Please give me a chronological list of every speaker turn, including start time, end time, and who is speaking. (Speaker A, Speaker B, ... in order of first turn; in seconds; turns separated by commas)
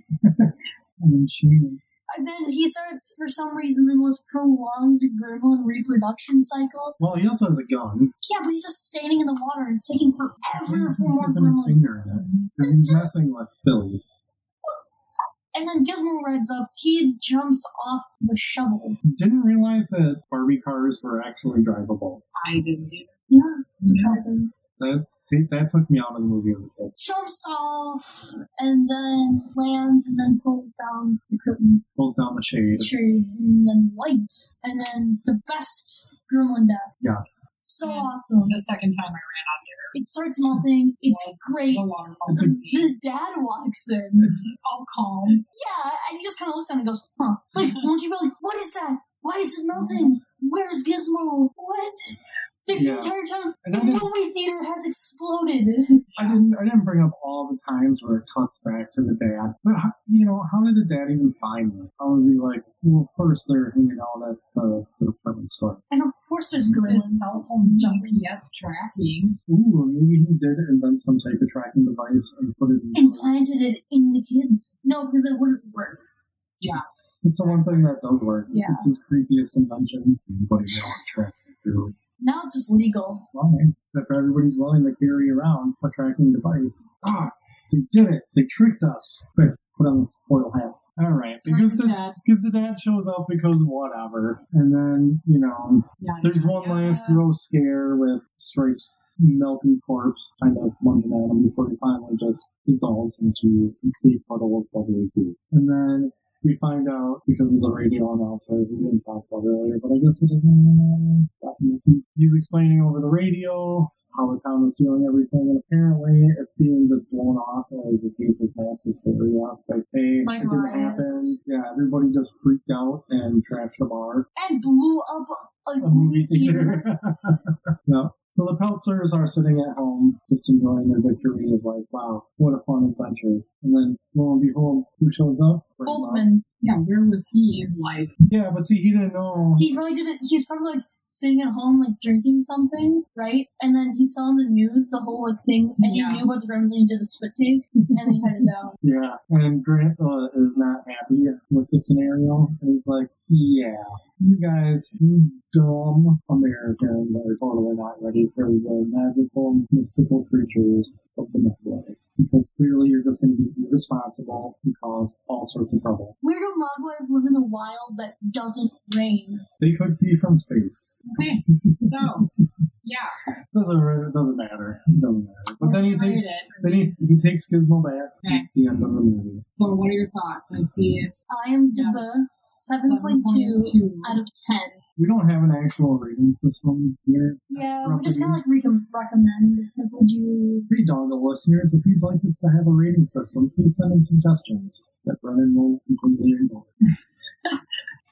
Speaker A: 0.2-1.8, Speaker B: 2.1-7.0, Speaker A: 7.0-8.1, Speaker B: 8.2-11.9, Speaker A: 10.6-14.0, Speaker B: 12.6-13.3, Speaker B: 15.5-19.0, Speaker A: 19.0-22.2, Speaker C: 22.4-23.1, Speaker B: 23.3-24.5, Speaker C: 23.8-24.2, Speaker A: 24.8-26.9, Speaker B: 27.0-31.8, Speaker A: 31.9-32.9, Speaker B: 32.8-36.9, Speaker A: 37.0-37.5, Speaker B: 37.6-38.6, Speaker C: 37.8-40.0, Speaker B: 39.9-44.4, Speaker C: 41.0-42.9, Speaker A: 42.3-42.6, Speaker C: 44.3-45.4, Speaker B: 45.5-56.1, Speaker C: 49.7-50.1, Speaker A: 52.7-54.1, Speaker C: 56.1-56.4, Speaker A: 56.1-65.8, Speaker B: 65.9-68.2, Speaker C: 66.7-69.4, Speaker A: 69.5-73.3, Speaker B: 72.9-76.0, Speaker A: 77.2-81.9, Speaker C: 77.4-78.0, Speaker B: 78.5-78.8, Speaker B: 82.2-83.2, Speaker A: 83.3-124.3, Speaker C: 91.4-92.2, Speaker C: 96.0-97.2, Speaker B: 120.2-121.4, Speaker B: 124.3-126.9, Speaker A: 125.8-136.3, Speaker B: 135.8-136.4, Speaker C: 136.6-138.1, Speaker A: 138.3-139.7, Speaker B: 139.6-148.8, Speaker C: 145.8-146.3, Speaker A: 148.8-166.1, Speaker B: 166.2-169.4, Speaker A: 169.6-171.0, Speaker C: 171.1-172.3, Speaker C: 172.8-173.1, Speaker A: 173.5-179.4, Speaker C: 175.6-176.9, Speaker C: 179.5-181.1, Speaker B: 181.3-184.8, Speaker C: 181.7-184.2, Speaker A: 185.0-188.4, Speaker B: 187.5-190.7, Speaker A: 190.7-196.7